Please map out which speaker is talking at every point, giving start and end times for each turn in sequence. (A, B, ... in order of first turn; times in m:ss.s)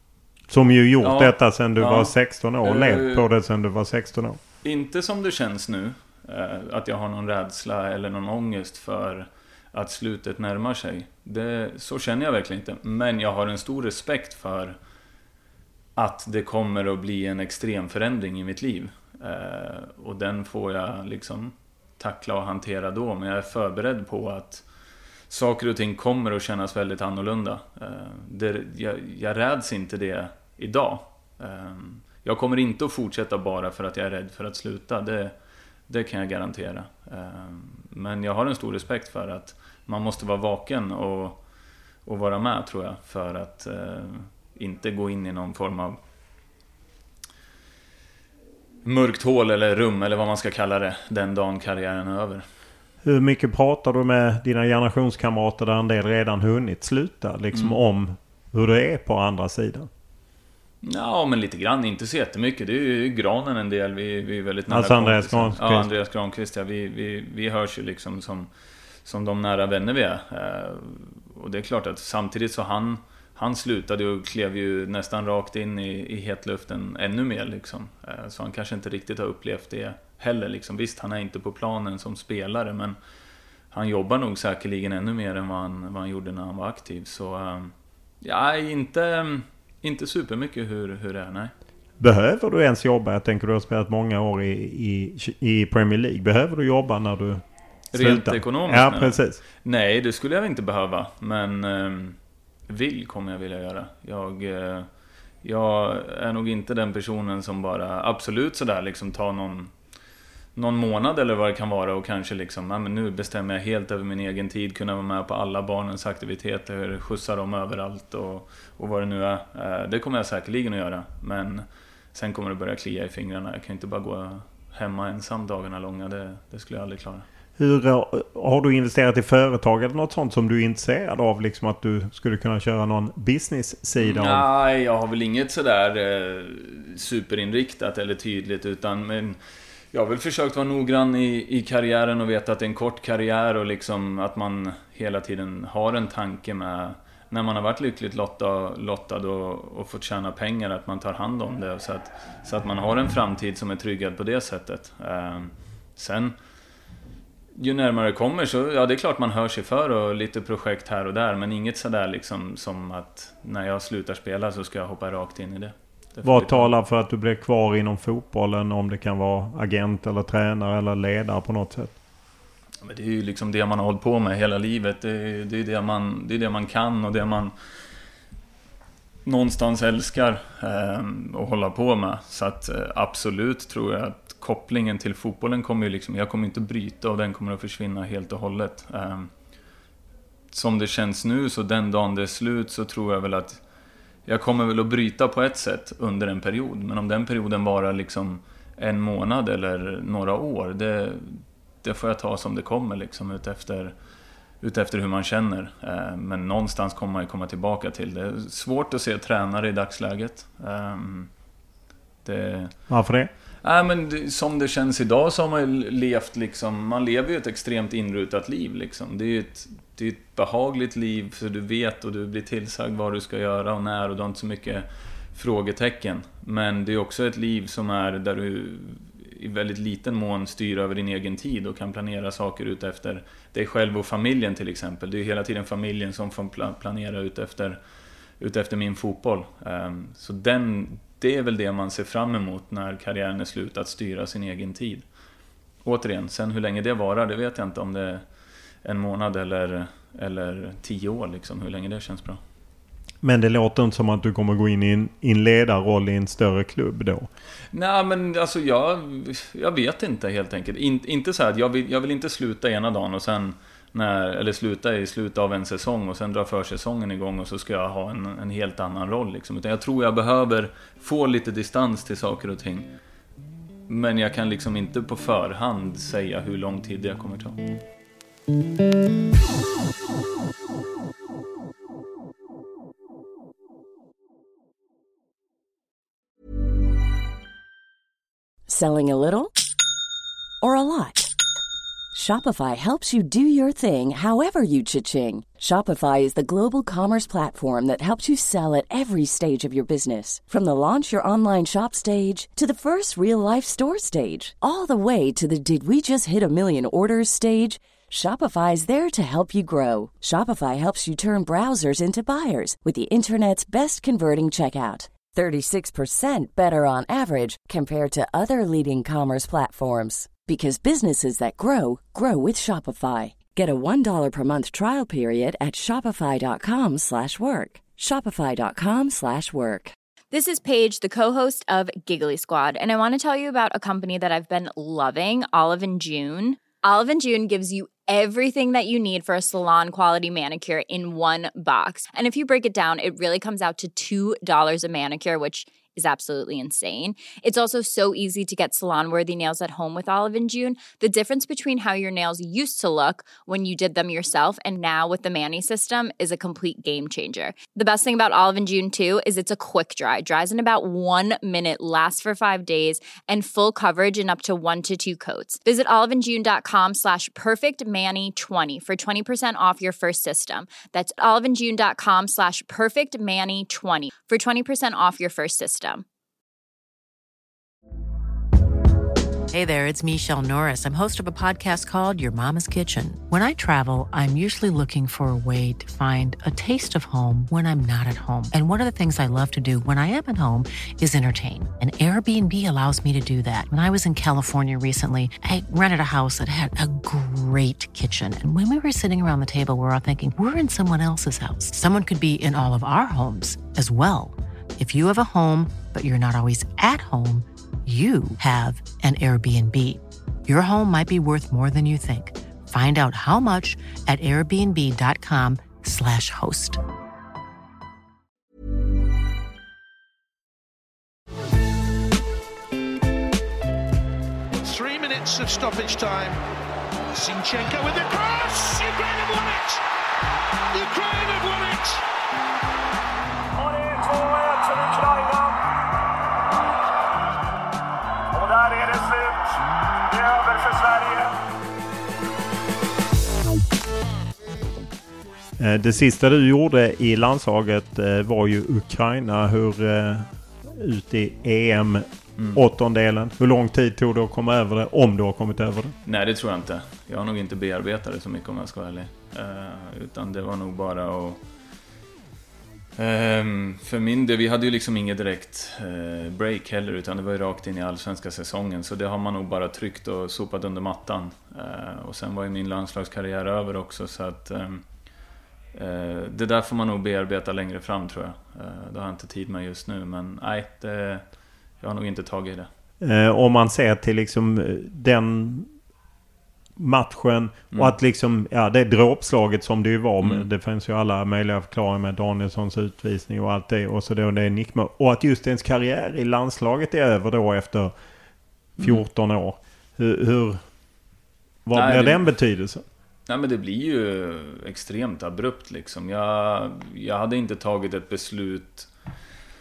0:00.5-0:04.4 A
0:01.0-0:03.3 B
0:04.6-0:14.8 B
0:16.0-0:24.6 B
0:25.3-0:35.3 B
0:35.9-0:41.4 B
0:42.1-0:46.0 B
0:48.8-0:52.4 B
0:53.0-0:59.9 A
1:00.8-1:08.5 B
1:04.7-1:05.9 A
1:09.0-1:23.0 B
1:23.7-1:31.5 B
1:32.0-1:37.4 A
1:37.9-1:42.2 B
1:37.9-1:39.4 A
1:42.7-1:44.9 B
1:45.4-1:49.7 B
1:50.6-2:07.2 B
2:07.6-2:14.5 A
2:14.0-2:19.4 B
2:19.9-2:36.4 B
2:37.6-2:46.7 B
2:46.2-2:52.0 A
2:52.8-2:57.5 B
2:59.3-3:09.3 B
3:10.5-3:13.6 B
3:14.3-3:23.9 B
3:24.6-3:31.3 B
3:32.2-3:32.8 B
3:32.9-3:33.3 A
3:33.6-3:57.8 B
3:58.4-4:05.0 B
4:05.8-4:08.2 B
4:08.8-4:12.4 B
4:13.2-4:17.3 A
4:17.7-4:32.9 B
4:33.9-4:37.6 B
4:48.7-4:49.6 C
4:50.6-4:51.3 C
4:52.1-5:30.0 C
5:30.3-6:16.0 D
6:19.5-6:56.8 E
7:04.5-7:06.4 F
7:07.1-7:09.8 F
7:10.7-7:12.0 F
7:13.7-7:15.4 A
7:18.5-7:19.2 A
7:20.2-7:21.2 A
7:25.6-7:36.0 A
7:36.1-7:41.4 B
7:43.0-7:54.8 B
7:55.7-8:01.2 B
8:01.8-8:02.7 B
8:03.0-8:05.7 A
8:06.8-8:17.9 A
8:10.2-8:10.5 B
8:18.8-8:20.6 A
8:18.8-8:19.0 B
8:21.7-8:22.8 A
8:21.7-8:22.3 B
8:23.3-8:28.9 B